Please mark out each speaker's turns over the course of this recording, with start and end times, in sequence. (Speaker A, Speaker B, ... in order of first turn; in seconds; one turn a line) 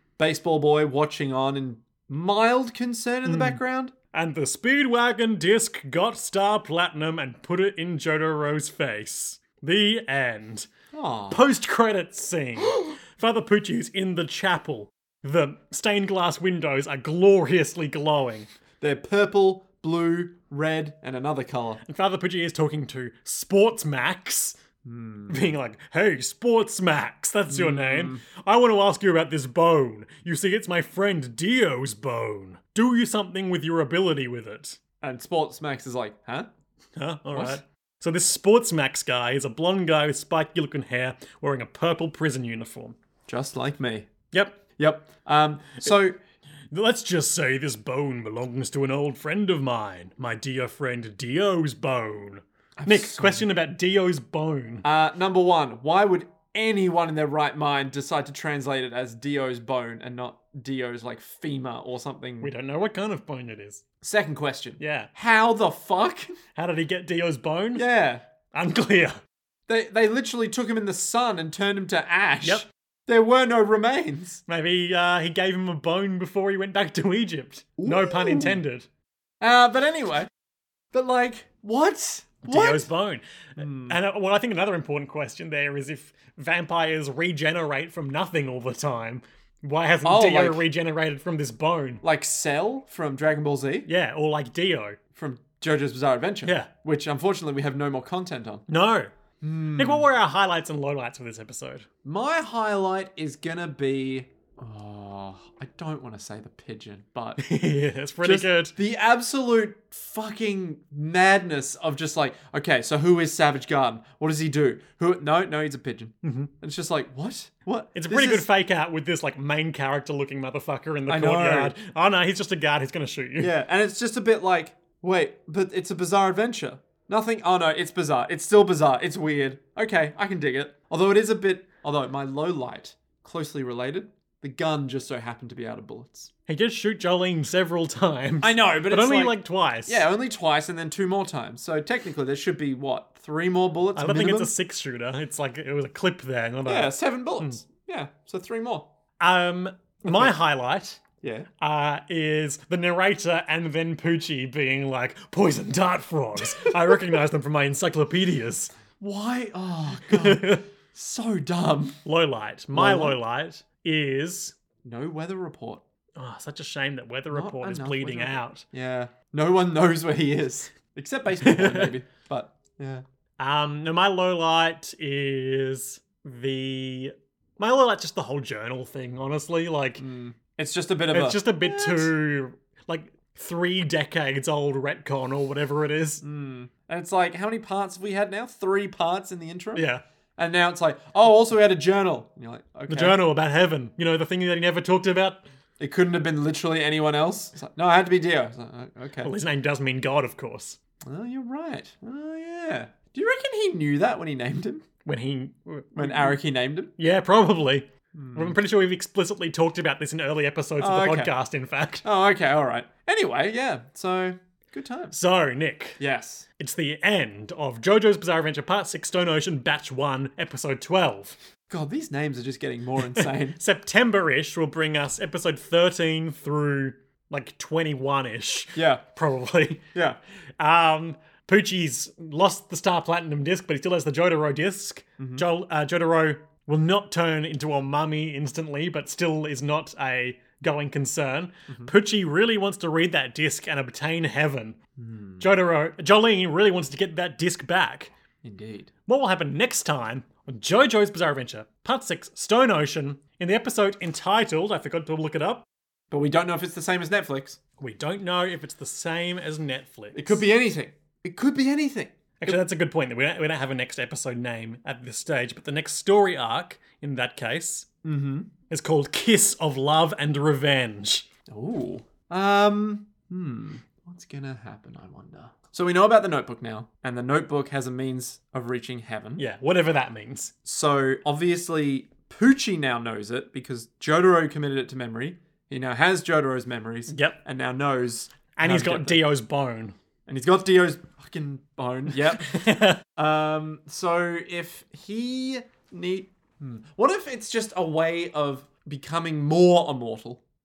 Speaker A: 0.2-3.9
Speaker B: 3.2-3.6
Speaker B: 4.1-10.7
Speaker A: 10.9-11.4
Speaker B: 11.3-18.5
Speaker A: 18.8-21.8
Speaker B: 21.8-24.6
Speaker A: 24.8-25.5
Speaker B: 25.3-34.8
Speaker A: 27.5-28.2
Speaker A: 35.0-36.5
Speaker B: 37.0-43.0
Speaker A: 37.3-37.6
Speaker A: 43.3-44.1
Speaker B: 44.3-44.6
Speaker A: 44.8-46.1
Speaker B: 46.7-54.9
Speaker A: 52.8-53.5
Speaker A: 54.8-62.5
Speaker B: 62.4-63.8
Speaker A: 64.0-66.3
Speaker B: 64.8-65.1
Speaker B: 66.5-67.8
Speaker A: 67.7-68.2
Speaker B: 68.5-69.2
Speaker A: 69.7-74.4
Speaker B: 74.5-78.9
Speaker A: 77.8-78.6
Speaker A: 79.4-80.3
Speaker A: 80.9-82.9
Speaker B: 82.4-92.0
Speaker A: 83.6-84.0
Speaker A: 90.0-90.7
Speaker A: 92.0-93.9
Speaker B: 93.8-95.0
Speaker A: 95.1-98.6
Speaker B: 98.7-99.1
Speaker A: 99.4-100.1
Speaker B: 99.8-101.8
Speaker A: 102.0-107.4
Speaker B: 107.4-108.7
Speaker A: 108.2-118.5
Speaker B: 116.2-116.5
Speaker B: 117.9-123.5
Speaker A: 121.1-121.8
Speaker A: 123.4-136.3
Speaker B: 136.5-140.0
Speaker A: 138.4-144.5
Speaker B: 143.9-147.6
Speaker A: 146.7-148.9
Speaker B: 149.2-151.0
Speaker A: 150.0-150.3
Speaker A: 151.2-151.5
Speaker B: 151.6-158.7
Speaker A: 156.4-157.0
Speaker A: 159.0-162.0
Speaker B: 160.1-160.6
Speaker B: 162.0-164.6
Speaker A: 162.7-163.2
Speaker A: 164.8-165.8
Speaker B: 166.2-168.6
Speaker A: 167.3-173.0
Speaker B: 171.4-171.9
Speaker B: 173.4-180.0
Speaker A: 180.0-182.1
Speaker B: 181.1-186.2
Speaker A: 186.2-189.8
Speaker B: 189.7-190.0
Speaker A: 190.4-193.2
Speaker B: 192.9-195.4
Speaker A: 195.8-199.3
Speaker B: 199.2-200.8
Speaker A: 201.0-204.8
Speaker B: 205.0-206.4
Speaker A: 205.9-206.9
Speaker B: 207.0-212.1
Speaker A: 208.1-208.6
Speaker A: 210.8-211.3
Speaker A: 212.0-215.1
Speaker B: 215.1-216.0
Speaker A: 216.0-216.4
Speaker B: 216.6-221.4
Speaker A: 221.7-223.6
Speaker B: 223.1-229.9
Speaker A: 228.7-229.0
Speaker A: 229.9-230.2
Speaker B: 230.6-244.8
Speaker A: 235.2-235.4
Speaker A: 245.0-245.4
Speaker B: 245.4-248.1
Speaker A: 248.4-248.9
Speaker B: 249.1-255.7
Speaker A: 256.1-257.6
Speaker B: 257.8-260.4
Speaker A: 260.1-262.6
Speaker B: 262.4-267.9
Speaker A: 268.0-268.5
Speaker B: 268.7-271.3
Speaker A: 271.5-279.4
Speaker B: 279.4-280.5
Speaker A: 280.6-289.2
Speaker B: 287.1-287.4
Speaker B: 288.6-289.9
Speaker A: 290.3-300.4
Speaker B: 292.2-293.0